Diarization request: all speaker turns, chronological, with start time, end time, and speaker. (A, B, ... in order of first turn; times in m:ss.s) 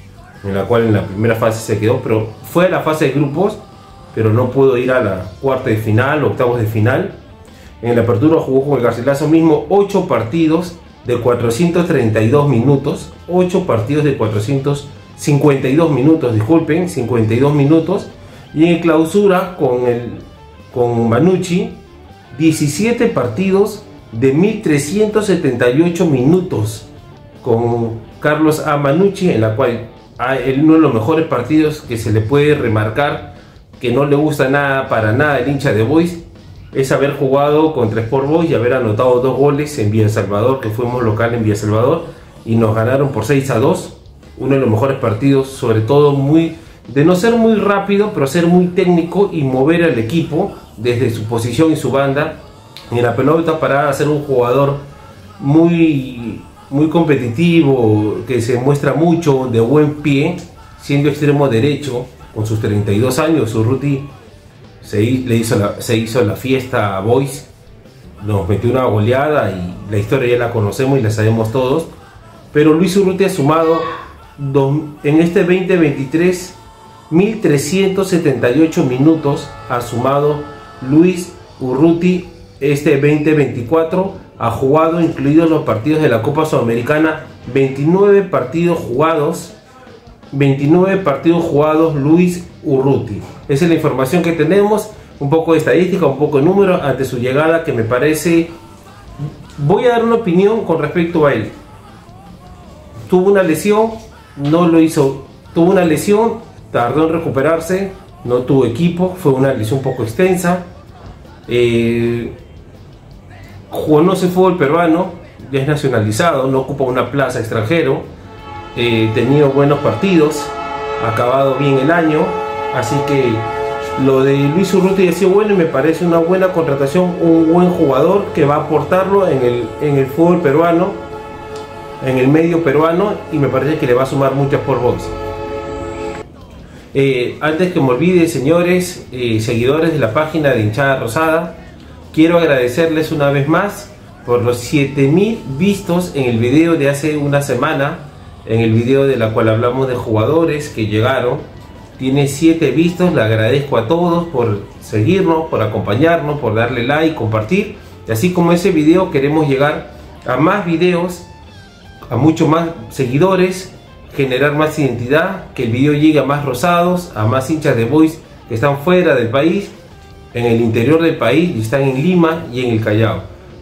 0:00.4-0:03.6 A
0:04.1-0:07.2 A
0:07.8-0:21.8 A
0:22.3-0:26.9 A
0:27.4-0:36.2 A
0:36.7-0:54.8 A
0:55.4-1:04.1 A
1:04.8-1:07.5 A
1:08.2-1:11.9 A
1:12.5-1:16.6 A
1:17.1-1:29.6 A
1:30.3-1:38.5 A
1:39.6-1:41.5 A
1:43.1-1:50.6 A
1:51.5-1:52.3 A
1:53.7-1:58.0 A
1:58.7-2:11.0 A
2:12.0-2:15.2 A
2:16.9-2:21.6 A
2:22.1-2:41.3 A
2:42.1-2:49.7 A
2:50.3-2:53.2 A